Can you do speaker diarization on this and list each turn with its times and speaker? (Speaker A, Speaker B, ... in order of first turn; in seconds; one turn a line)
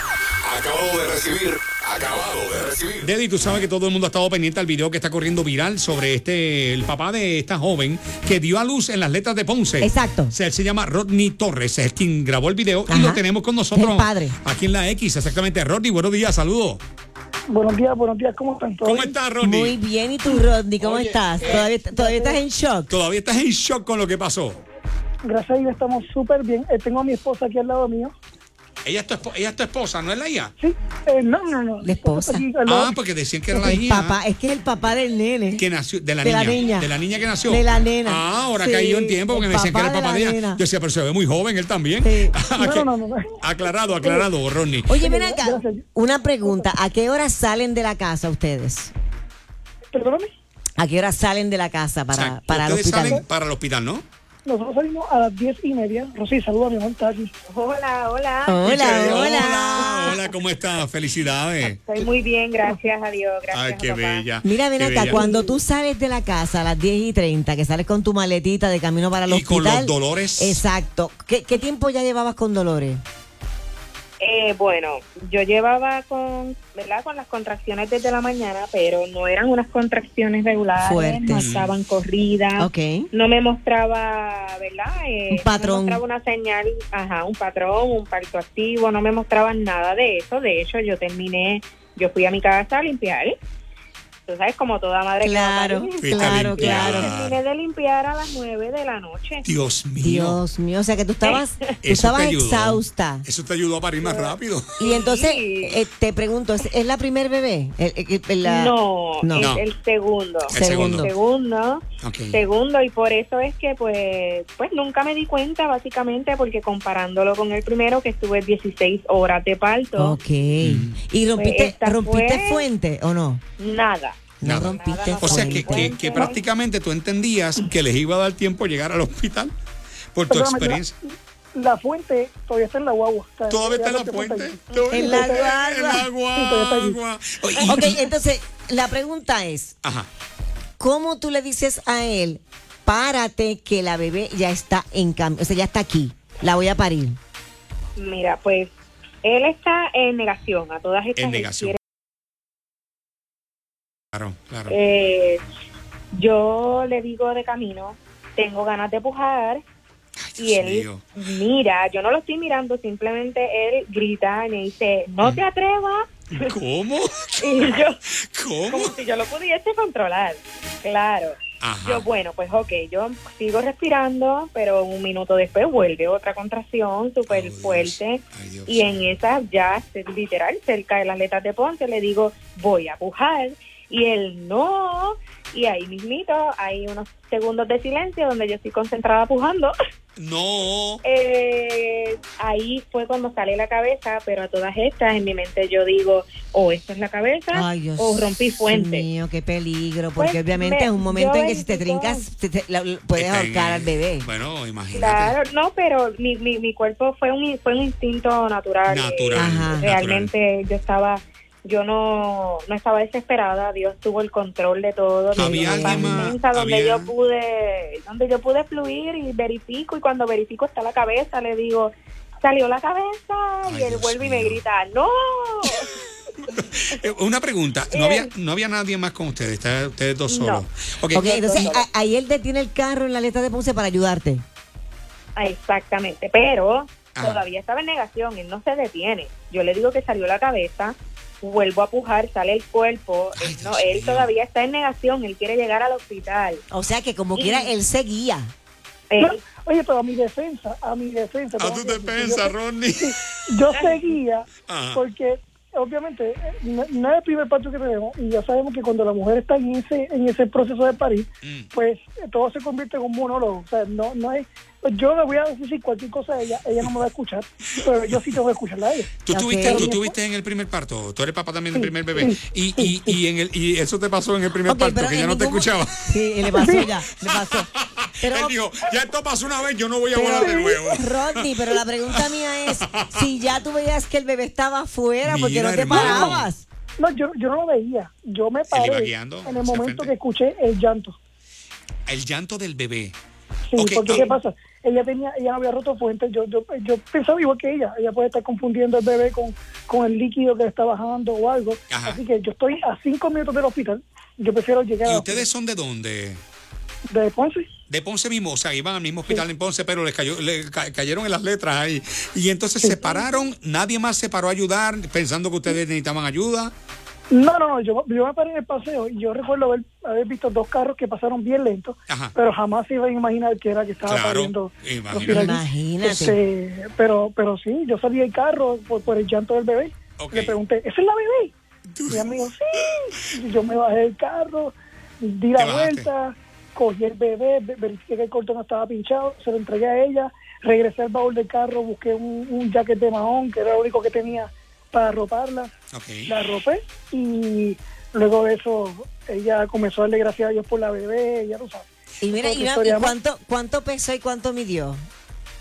Speaker A: 0.4-3.1
Speaker B: 3.0-16.8
Speaker C: 9.8-10.3
Speaker C: 12.9-13.2
Speaker C: 13.7-14.3
Speaker D: 17.5-19.1
Speaker B: 18.8-19.8
Speaker C: 19.4-22.9
Speaker B: 20.8-21.7
Speaker D: 21.8-22.4
Speaker B: 22.9-24.6
Speaker D: 25.2-28.1
Speaker B: 28.8-30.5
Speaker D: 30.6-33.0
Speaker C: 31.8-32.5
Speaker B: 32.6-34.2
Speaker C: 33.5-35.6
Speaker B: 35.5-42.9
Speaker C: 36.2-36.9
Speaker C: 37.5-40.6
Speaker C: 42.0-42.4
Speaker D: 42.5-43.4
Speaker B: 43.4-45.0
Speaker D: 44.0-44.3
Speaker C: 44.9-48.9
Speaker D: 45.0-45.8
Speaker D: 46.4-46.7
Speaker D: 49.9-50.3
Speaker C: 50.8-53.2
Speaker B: 52.1-54.0
Speaker D: 54.5-57.3
Speaker E: 57.5-60.2
Speaker C: 58.5-60.2
Speaker B: 58.6-61.8
Speaker E: 61.8-64.3
Speaker B: 63.5-65.2
Speaker C: 64.4-73.0
Speaker D: 65.1-65.6
Speaker B: 69.3-70.6
Speaker E: 74.2-93.4
Speaker C: 80.8-81.5
Speaker B: 81.4-81.7
Speaker C: 82.6-83.1
Speaker C: 85.3-86.0
Speaker E: 94.3-99.5
Speaker C: 95.2-97.1
Speaker B: 96.0-97.4
Speaker B: 99.4-100.4
Speaker C: 100.0-103.2
Speaker B: 101.8-104.8
Speaker E: 104.0-105.8
Speaker C: 104.8-109.6
Speaker E: 108.4-120.2
Speaker B: 109.4-109.6
Speaker B: 110.5-111.1
Speaker C: 110.5-111.1
Speaker B: 112.0-112.4
Speaker C: 120.0-123.4
Speaker B: 120.6-121.0
Speaker E: 121.4-122.7
Speaker E: 123.6-126.4
Speaker C: 124.4-126.3
Speaker B: 124.4-129.5
Speaker B: 130.1-130.9
Speaker D: 130.3-135.6
Speaker B: 133.5-138.1
Speaker E: 134.7-135.2
Speaker C: 134.9-136.1
Speaker D: 136.3-137.0
Speaker E: 137.6-137.9
Speaker C: 137.6-139.7
Speaker B: 139.8-140.1
Speaker C: 140.8-147.2
Speaker E: 147.9-151.8
Speaker B: 151.2-151.8
Speaker B: 154.1-154.8
Speaker E: 154.7-155.4
Speaker E: 156.1-159.6
Speaker B: 160.2-161.1
Speaker E: 160.4-166.5
Speaker B: 166.3-168.9
Speaker E: 167.4-168.0
Speaker E: 168.6-189.7
Speaker B: 171.6-172.1
Speaker B: 177.3-179.0
Speaker B: 190.2-191.0
Speaker E: 191.0-199.1
Speaker C: 197.5-204.3
Speaker E: 200.2-202.2
Speaker B: 203.1-205.3
Speaker E: 204.9-225.9
Speaker B: 208.9-210.3
Speaker C: 209.3-209.9
Speaker B: 215.3-217.1
Speaker C: 215.3-216.3
Speaker B: 223.6-224.6
Speaker B: 226.4-231.3
Speaker E: 227.9-228.3
Speaker E: 230.3-230.6
Speaker C: 231.1-234.4
Speaker E: 231.1-231.9
Speaker E: 235.3-246.6
Speaker B: 237.2-237.4
Speaker B: 243.4-244.3
Speaker C: 246.7-248.5
Speaker E: 247.3-247.7
Speaker E: 249.1-249.4
Speaker D: 249.2-269.1
Speaker B: 251.6-253.2
Speaker E: 253.7-254.2
Speaker B: 254.6-255.0
Speaker B: 261.4-261.7
Speaker B: 269.2-276.1
Speaker C: 269.3-269.9
Speaker D: 269.6-270.2
Speaker D: 271.7-273.2
Speaker C: 274.6-277.7
Speaker D: 276.5-276.9
Speaker B: 277.2-282.2
Speaker C: 278.2-278.6
Speaker D: 280.1-280.9
Speaker C: 280.9-286.6
Speaker B: 282.8-283.2
Speaker B: 285.2-286.5
Speaker D: 285.9-286.5
Speaker D: 287.0-291.2
Speaker B: 288.7-290.1
Speaker B: 292.1-293.2
Speaker D: 293.7-305.5
Speaker B: 293.8-294.3
Speaker B: 301.9-302.2
Speaker B: 305.1-306.4
Speaker D: 307.1-307.7
Speaker B: 307.9-316.7
Speaker D: 312.8-313.5
Speaker D: 317.3-331.5
Speaker B: 322.1-322.4
Speaker B: 324.1-325.6
Speaker C: 325.2-326.4
Speaker B: 330.2-330.6
Speaker B: 331.9-333.2
Speaker D: 332.1-345.7
Speaker B: 335.6-336.1
Speaker B: 345.9-346.3
Speaker D: 346.3-353.2
Speaker C: 352.2-355.0